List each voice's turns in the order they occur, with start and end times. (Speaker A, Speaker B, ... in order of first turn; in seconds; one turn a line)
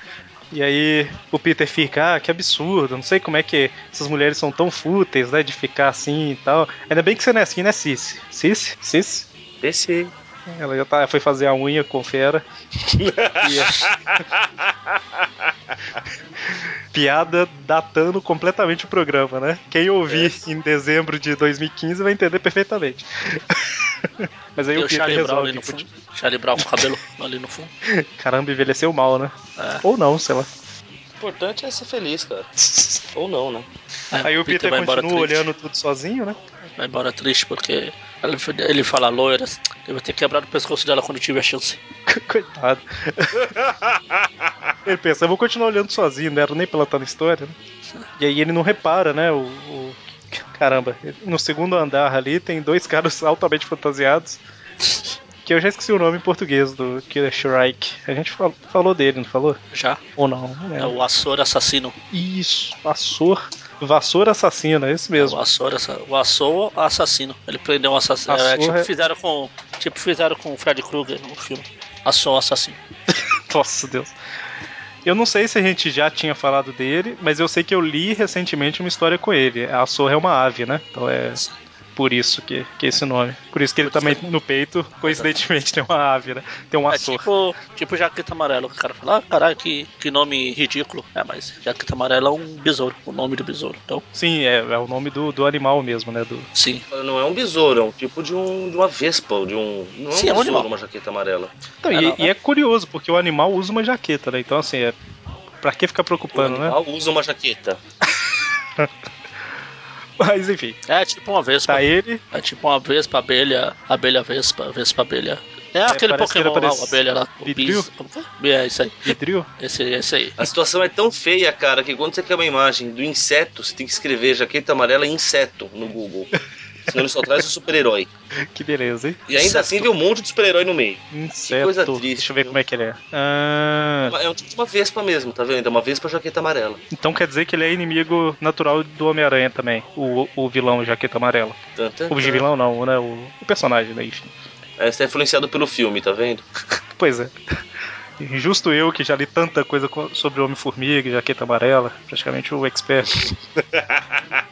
Speaker A: 0.5-9.2
Speaker B: 9.6-10.1
Speaker A: 10.5-12.4
Speaker B: 12.8-14.4
Speaker A: 13.4-13.9
Speaker A: 16.4-25.9
Speaker B: 20.1-20.4
Speaker C: 24.7-27.7
Speaker A: 26.6-26.9
Speaker A: 27.8-30.5
Speaker C: 29.6-29.8
Speaker B: 31.2-32.5
Speaker A: 32.6-33.0
Speaker B: 33.1-33.7
Speaker C: 34.1-35.5
Speaker A: 34.2-36.4
Speaker C: 36.8-41.8
Speaker A: 42.1-43.5
Speaker B: 43.5-44.0
Speaker A: 44.8-47.5
Speaker A: 48.2-54.4
Speaker A: 55.4-59.6
Speaker C: 59.7-60.0
Speaker A: 60.2-60.9
Speaker C: 60.8-62.0
Speaker A: 62.1-65.4
Speaker C: 65.2-72.8
Speaker A: 68.3-68.9
Speaker A: 73.1-74.1
Speaker A: 75.0-81.4
Speaker A: 82.0-87.2
Speaker C: 83.8-84.2
Speaker C: 85.0-85.3
Speaker C: 86.9-94.0
Speaker A: 94.1-96.5
Speaker C: 96.5-96.8
Speaker B: 96.9-101.5
Speaker C: 100.1-100.7
Speaker A: 101.8-104.9
Speaker C: 101.9-102.3
Speaker A: 105.6-106.8
Speaker B: 106.3-107.8
Speaker A: 108.1-108.9
Speaker A: 110.2-110.8
Speaker C: 110.9-120.4
Speaker A: 111.7-112.2
Speaker A: 115.9-117.9
Speaker A: 119.0-119.5
Speaker B: 120.4-126.3
Speaker B: 126.9-128.1
Speaker A: 128.5-129.2
Speaker B: 129.3-132.5
Speaker C: 129.3-129.8
Speaker A: 131.1-134.2
Speaker B: 134.1-136.8
Speaker A: 136.9-141.6
Speaker B: 141.8-142.4
Speaker A: 142.1-144.3
Speaker B: 144.8-146.4
Speaker A: 146.9-147.3
Speaker A: 148.2-153.2
Speaker B: 153.2-154.0